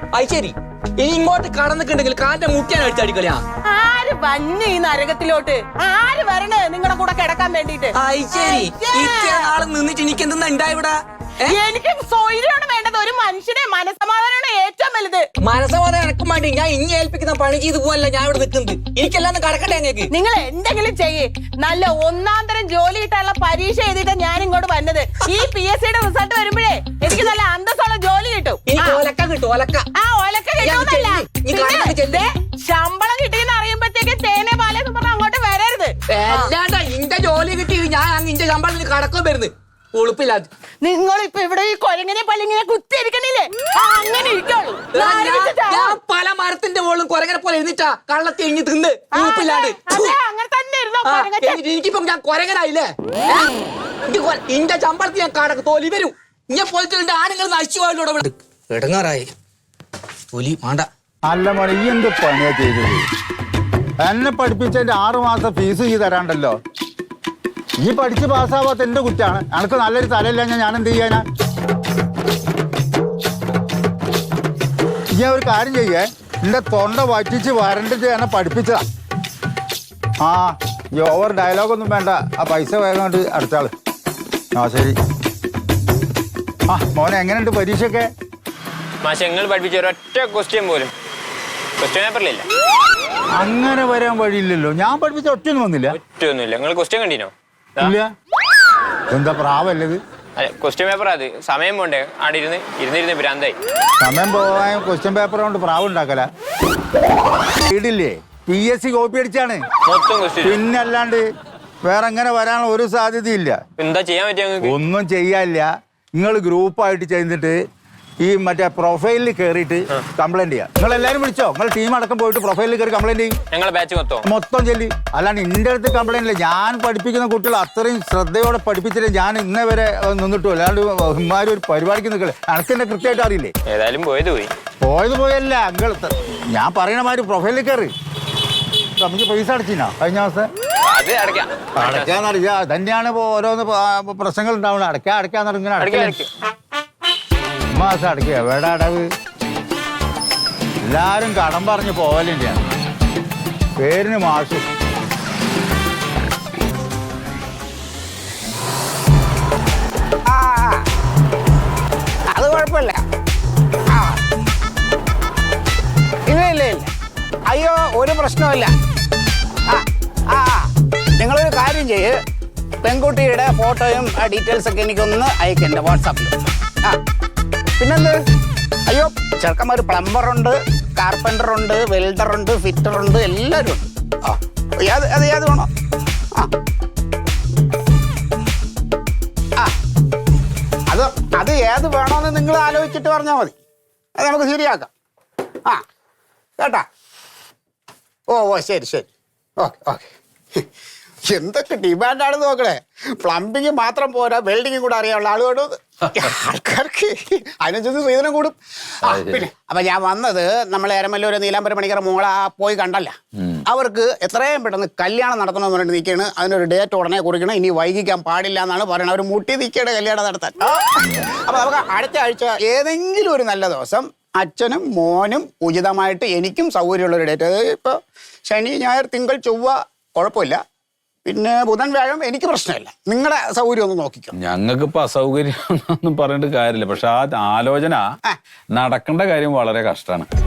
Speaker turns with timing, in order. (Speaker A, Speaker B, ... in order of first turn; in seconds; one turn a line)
Speaker A: 0.1-3.4
Speaker B: 3.6-9.5
Speaker A: 7.9-11.6
Speaker B: 11.5-15.3
Speaker A: 15.4-20.1
Speaker B: 20.1-29.0
Speaker A: 28.6-29.9
Speaker B: 29.9-36.5
Speaker A: 30.6-32.3
Speaker A: 36.1-40.5
Speaker B: 40.8-46.0
Speaker A: 44.9-50.1
Speaker B: 49.1-51.6
Speaker A: 51.0-53.5
Speaker A: 54.1-59.3
Speaker A: 60.3-60.9
Speaker C: 61.3-63.0
Speaker C: 64.0-66.6
Speaker C: 67.8-71.2
Speaker C: 75.1-78.8
Speaker C: 80.2-83.7
Speaker C: 84.5-85.0
Speaker C: 86.7-88.1
Speaker D: 89.0-90.9
Speaker D: 91.8-92.5
Speaker C: 93.3-96.0
Speaker D: 96.0-98.0
Speaker C: 97.8-98.1
Speaker C: 99.1-100.0
Speaker D: 100.4-103.6
Speaker C: 104.0-106.3
Speaker C: 107.6-109.6
Speaker D: 109.8-110.6
Speaker C: 110.4-111.2
Speaker C: 111.8-113.6
Speaker D: 113.8-114.8
Speaker C: 114.6-117.5
Speaker C: 118.2-123.3
Speaker D: 123.5-124.3
Speaker C: 124.2-133.5
Speaker D: 133.7-134.5
Speaker C: 134.8-137.9
Speaker C: 139.0-140.5
Speaker D: 140.9-142.1
Speaker C: 141.8-146.2
Speaker D: 145.8-146.3
Speaker C: 147.7-149.0
Speaker C: 150.8-152.6
Speaker C: 153.8-154.6
Speaker E: 160.3-160.8
Speaker E: 162.3-163.0
Speaker E: 163.9-164.2
Speaker E: 166.3-166.9
Speaker E: 167.5-168.7
Speaker E: 169.7-172.1
Speaker E: 172.8-177.0
Speaker E: 177.8-178.2
Speaker E: 178.9-185.7
Speaker E: 190.9-193.5
Speaker E: 194.2-194.9
Speaker E: 196.6-196.8
Speaker E: 198.3-199.1
Speaker E: 199.6-200.6
Speaker E: 201.3-213.1
Speaker F: 209.1-209.4
Speaker F: 213.4-213.6
Speaker E: 213.7-230.6
Speaker E: 231.2-234.3
Speaker F: 234.4-238.0
Speaker F: 238.7-240.3